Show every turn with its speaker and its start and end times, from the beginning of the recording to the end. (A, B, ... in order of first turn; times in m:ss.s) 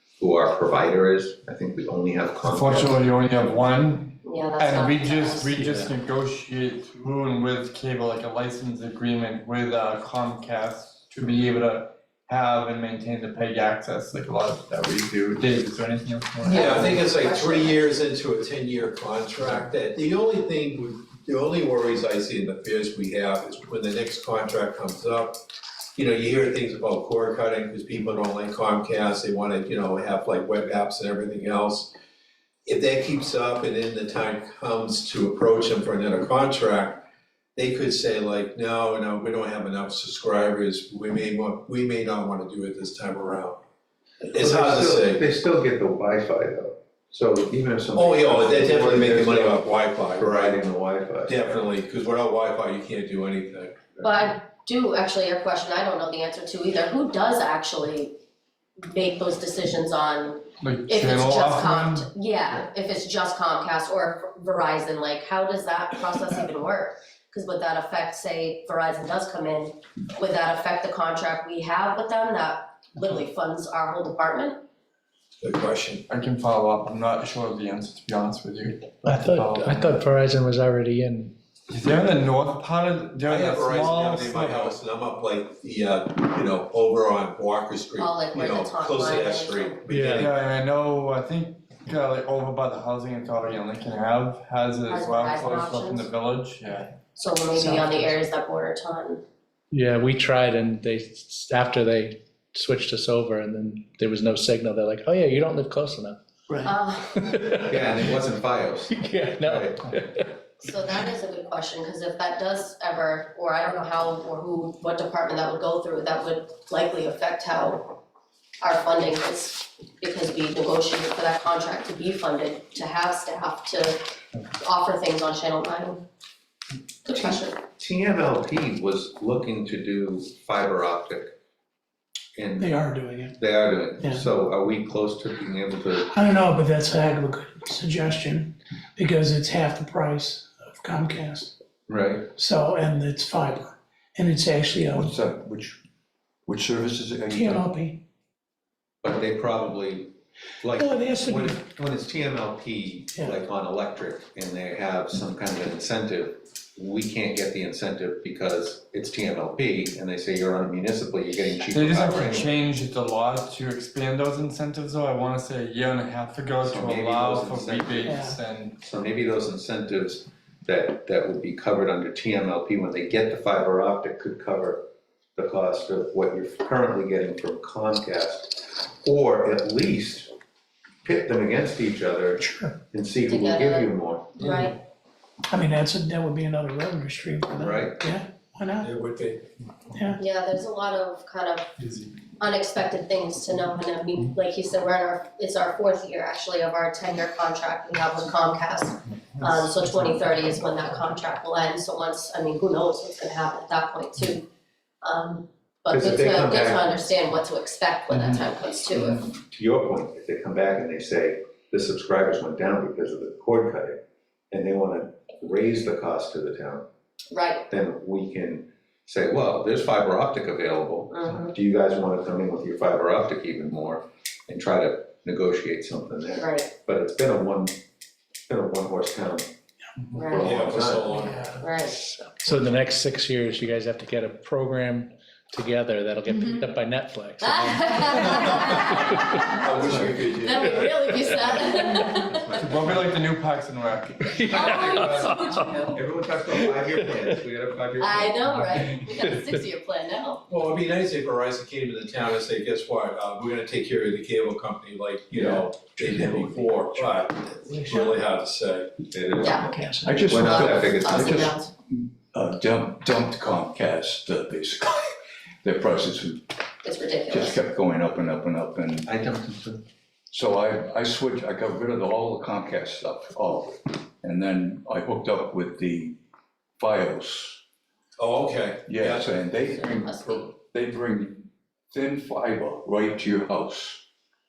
0:00.2-0:02.9 A
0:02.5-0:17.1 B
0:04.2-0:05.6 C
0:16.4-0:17.9 C
0:16.5-0:25.4 D
0:26.0-0:31.9 D
0:32.7-0:37.0 D
0:37.6-0:43.6 D
0:44.2-0:45.2 D
0:44.3-0:51.4 A
0:47.9-0:50.6 D
0:51.3-0:54.1 D
0:54.0-0:58.2 C
0:58.8-1:14.6 C
1:00.6-1:02.1 B
1:15.4-1:16.0 D
1:16.1-1:20.0 B
1:19.0-1:21.3 E
1:21.7-1:24.7 B
1:23.2-1:30.4 D
1:28.0-1:29.8 C
1:29.9-1:30.2 E
1:30.1-1:36.9 B
1:34.9-1:36.1 C
1:37.2-1:39.2 C
1:37.6-1:37.9 F
1:39.7-1:48.0 E
1:46.6-1:47.6 C
1:47.6-1:49.9 A
1:48.9-1:50.3 E
1:50.6-1:58.0 C
1:58.6-2:06.0 C
2:07.0-2:07.6 C
2:07.8-2:11.3 A
2:12.4-2:16.0 A
2:12.6-2:13.4 F
2:14.0-2:14.3 F
2:15.9-2:21.5 F
2:21.9-2:22.3 A
2:22.4-2:25.1 F
2:24.9-2:25.8 G
2:26.5-2:27.7 G
2:27.3-2:28.0 F
2:29.0-2:42.5 A
2:30.7-2:31.7 F
2:33.1-2:33.4 F
2:41.7-2:48.8 B
2:46.6-2:48.1 A
2:48.0-2:48.4 F
2:48.8-2:54.8 A
2:55.4-3:00.3 A
3:01.0-3:04.4 A
3:02.4-3:02.8 F
3:03.3-3:04.8 C
3:05.5-3:08.9 F
3:07.6-3:08.0 A
3:08.8-3:09.5 D
3:09.9-3:10.2 F
3:10.2-3:11.7 C
3:11.8-3:12.1 B
3:12.4-3:24.5 C
3:25.0-3:29.2 C
3:25.9-3:26.9 A
3:28.1-3:28.4 G
3:29.4-3:34.0 A
3:34.5-3:36.9 A
3:37.3-3:37.7 C
3:37.7-3:47.8 A
3:41.1-3:41.5 C
3:46.4-3:46.7 C
3:48.5-3:49.5 A
3:50.1-3:50.6 C
3:50.2-3:51.3 A
3:50.4-3:51.6 D
3:51.6-3:52.0 C
3:52.0-3:59.6 E
3:57.4-4:02.6 C
3:59.5-4:00.9 D
3:59.7-4:00.2 A
4:02.6-4:04.5 B
4:04.4-4:05.9 E
4:04.5-4:06.0 C
4:04.5-4:05.3 A
4:06.0-4:08.4 A
4:06.5-4:07.4 E
4:08.0-4:10.4 C
4:10.5-4:19.1 D
4:17.7-4:18.1 F
4:19.1-4:19.6 A
4:19.4-4:19.7 C
4:19.5-4:20.3 F
4:20.0-4:26.4 G
4:20.3-4:21.5 A
4:20.3-4:21.7 C
4:26.8-4:27.6 C
4:27.3-4:29.1 G
4:29.1-4:29.8 A
4:30.3-4:36.2 G
4:36.8-4:37.6 G
4:38.2-4:39.3 D
4:38.9-4:44.0 G
4:39.4-4:40.5 C